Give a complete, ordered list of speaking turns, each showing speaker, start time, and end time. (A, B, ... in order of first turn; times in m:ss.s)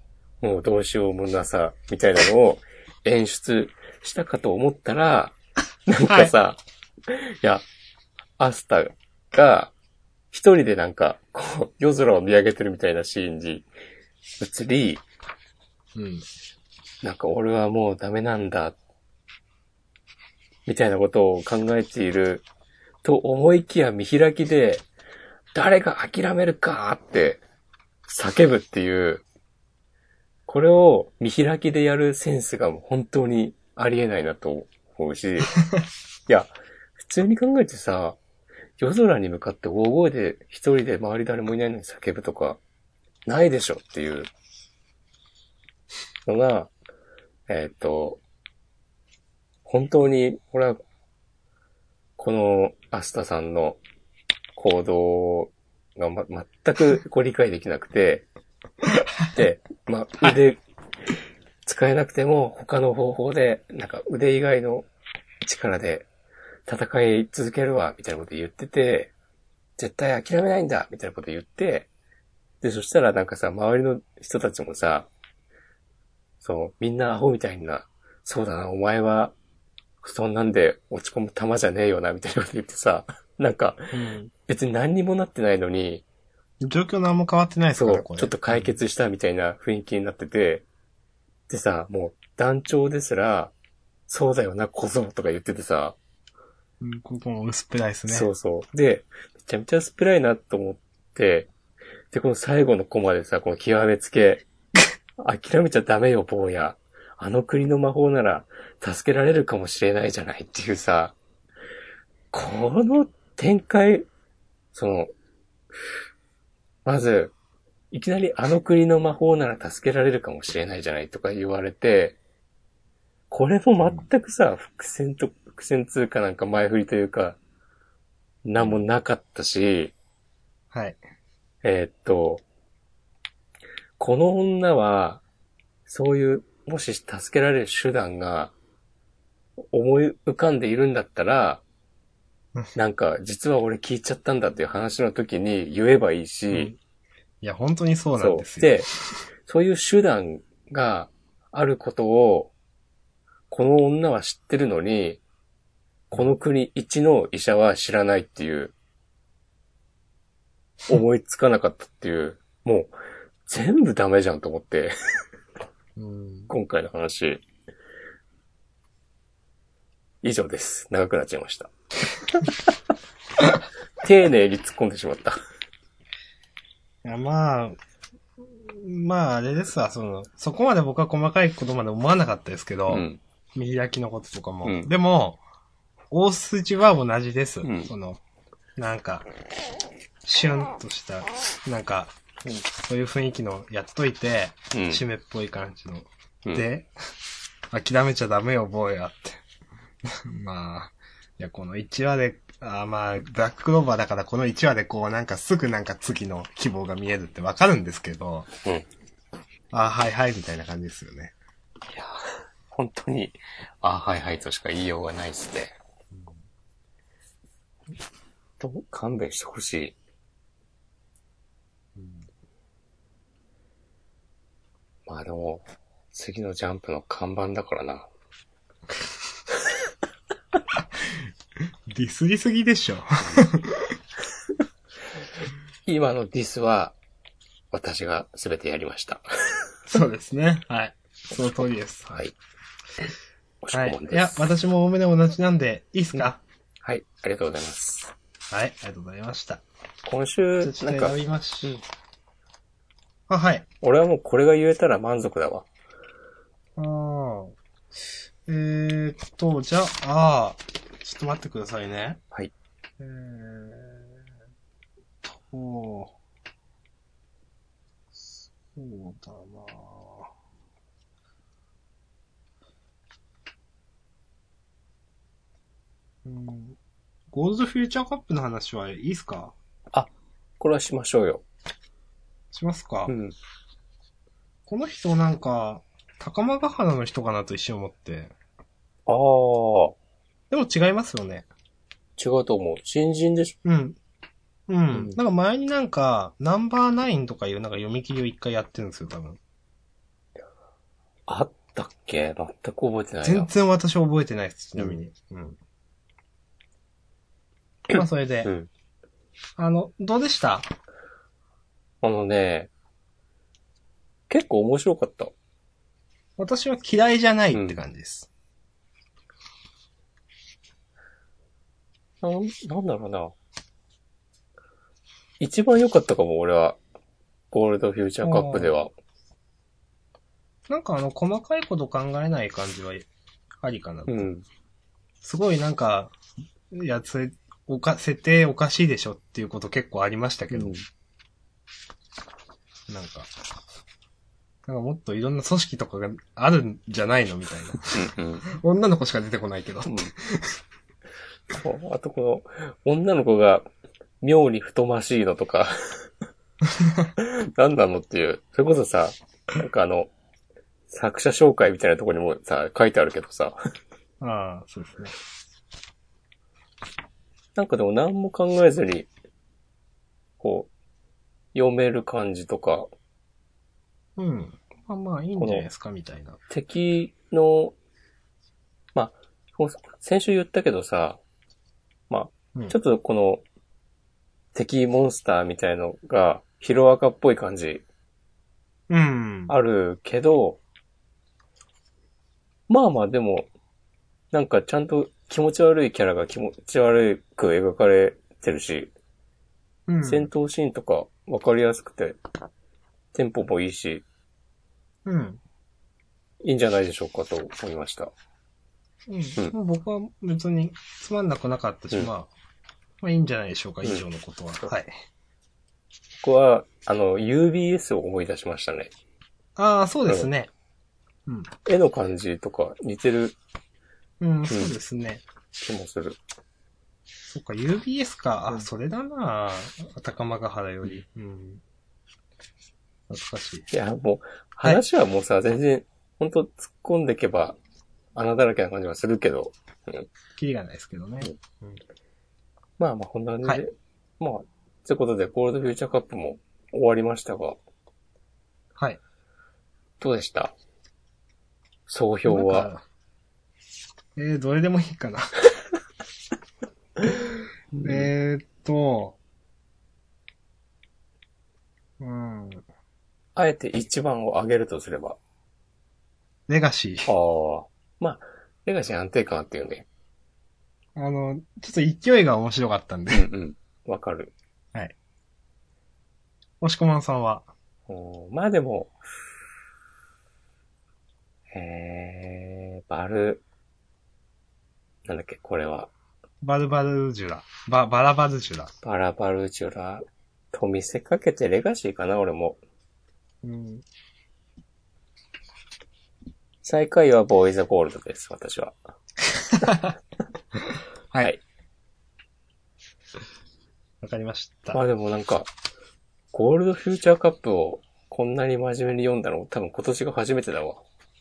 0:00.4-0:05.4 A
0:05.9-0:07.6 A
0:06.0-0:06.3 B
0:08.4-0:09.7 A
0:10.3-0:13.7 A
0:14.4-0:15.0 A
0:15.9-0:16.2 B
0:17.0-0:18.8 A
0:20.6-0:22.4 A
0:23.0-0:24.8 A
0:25.5-0:27.4 A
0:28.1-0:29.2 A
0:30.5-0:35.6 A
0:36.3-0:38.2 A
0:38.8-0:42.6 A
0:43.2-0:44.3 A
0:46.2-0:46.7 A
0:47.5-0:48.2 A
0:49.6-0:50.8 A
0:52.2-0:53.8 A
0:54.6-0:58.2 A
0:58.9-0:59.2 B
0:59.3-1:00.6 A
1:01.6-1:04.9 A
1:05.4-1:06.0 A
1:06.7-1:09.1 A
1:09.8-1:11.9 A
1:12.6-1:15.1 A
1:16.4-1:19.3 A
1:20.0-1:23.9 A
1:23.9-1:24.3 B
1:24.5-1:26.0 A
1:26.6-1:28.7 B
1:27.8-1:30.6 A
1:31.5-1:33.5 A
1:34.1-1:36.0 A
1:36.8-1:38.3 B
1:38.1-1:41.5 A
1:42.1-1:44.4 A
1:45.2-1:51.2 A
1:52.3-1:54.1 A
1:54.7-1:55.1 A
1:56.8-1:57.3 A
1:57.9-2:02.2 A
2:03.3-2:07.4 A
2:08.4-2:09.9 A
2:10.7-2:11.0 B
2:11.6-2:12.4 A
2:14.0-2:15.2 A
2:15.9-2:18.5 A
2:19.7-2:21.6 A
2:22.7-2:26.7 A
2:26.5-2:26.8 B
2:27.4-2:28.9 B
2:28.2-2:28.9 A
2:29.4-2:32.5 A
2:33.5-2:35.2 A
2:36.1-2:38.7 A
2:40.9-2:42.9 A
2:43.5-2:44.9 A
2:46.0-2:46.5 B
2:46.5-2:47.4 A
2:50.2-2:51.7 A
2:54.0-2:55.4 A
2:57.0-2:57.8 B
2:58.4-3:05.4 B
3:02.9-3:03.2 A
3:04.6-3:04.9 A
3:06.1-3:08.2 B
3:07.6-3:07.9 A
3:08.8-3:09.3 B
3:10.2-3:12.1 B
3:12.7-3:16.9 B
3:14.7-3:15.0 A
3:17.7-3:19.4 B
3:20.0-3:28.5 B
3:29.7-3:31.3 B
3:31.9-3:32.2 A
3:32.7-3:35.7 A
3:36.1-3:36.4 B
3:38.6-3:39.9 A
3:41.9-3:42.3 B
3:45.1-3:48.1 A
3:50.8-3:51.2 B
3:51.9-3:54.0 B
3:55.8-3:56.9 A
3:57.7-3:59.7 A
3:59.9-4:02.1 B
4:02.1-4:02.3 A
4:03.6-4:04.5 A
4:03.7-4:06.4 B
4:06.8-4:08.1 A
4:08.5-4:09.6 B
4:10.0-4:11.8 A
4:10.6-4:11.8 B
4:13.3-4:13.6 B
4:13.8-4:15.7 A
4:16.8-4:17.6 B
4:18.4-4:22.2 B
4:23.0-4:24.2 B
4:25.2-4:26.1 B
4:28.2-4:30.3 B
4:36.2-4:36.8 B
4:37.3-4:39.5 B
4:39.9-4:41.4 A
4:42.5-4:43.1 B
4:43.1-4:43.3 A
4:44.7-4:48.3 B
4:49.1-4:50.0 A
4:50.5-4:51.5 B
4:52.2-4:53.6 A
4:53.6-4:54.0 B
4:54.7-4:59.4 B
5:01.3-5:03.5 A
5:03.2-5:05.6 B
5:07.9-5:08.5 B
5:07.9-5:08.7 A
5:09.6-5:10.7 B
5:12.0-5:12.7 A
5:14.3-5:15.3 A
5:16.4-5:18.3 B
5:17.5-5:17.8 A
5:22.2-5:23.3 A
5:25.4-5:26.8 A
5:27.5-5:28.9 A
5:28.2-5:28.7 B
5:30.7-5:33.1 B
5:33.6-5:34.3 B
5:34.1-5:34.4 A
5:35.2-5:36.1 B
5:36.7-5:40.8 B
5:40.5-5:40.8 A
5:42.9-5:43.3 B
5:44.6-5:50.6 B
5:47.9-5:48.5 A
5:49.8-5:50.1 A
5:51.5-5:53.7 A
5:54.2-5:56.1 A
5:57.2-6:00.1 A
6:00.9-6:03.6 A
6:04.2-6:05.1 B
6:07.6-6:09.1 A
6:10.4-6:10.7 A
6:11.5-6:12.9 A
6:14.2-6:16.4 B
6:15.4-6:15.6 A
6:16.5-6:17.7 A
6:18.9-6:21.2 A
6:22.1-6:23.4 A
6:24.5-6:27.8 A
6:28.9-6:29.5 B
6:29.5-6:30.6 A
6:32.7-6:33.5 A
6:34.3-6:38.9 A
6:39.9-6:40.3 B
6:40.0-6:42.2 A
6:43.1-6:44.0 A
6:45.0-6:45.4 B
6:46.4-6:48.1 A
6:49.1-6:52.3 B
6:53.0-6:54.9 B
6:56.2-6:58.9 A
6:59.6-7:00.5 B
7:01.6-7:03.4 A
7:04.2-7:05.2 B
7:05.6-7:06.2 A
7:07.3-7:11.6 B
7:13.1-7:13.7 B
7:13.7-7:17.6 A
7:18.1-7:20.1 A
7:20.4-7:21.8 B
7:22.8-7:27.6 A
7:30.0-7:30.5 A
7:31.9-7:32.7 A
7:32.2-7:32.8 B
7:34.2-7:35.5 B
7:37.7-7:38.1 A
7:37.8-7:39.2 B
7:42.0-7:42.6 B
7:43.4-7:45.2 A
7:46.5-7:47.1 B
7:47.0-7:49.9 A
7:51.0-7:53.3 B
7:53.1-7:54.3 A
7:56.6-7:57.5 B
7:57.9-7:59.0 A
8:01.5-8:03.4 A
8:05.1-8:05.9 A
8:06.4-8:08.7 B
8:08.8-8:12.6 A
8:13.4-8:13.8 B
8:16.6-8:18.7 A
8:19.5-8:19.9 B
8:24.0-8:24.8 B
8:24.7-8:25.5 A
8:26.3-8:30.8 A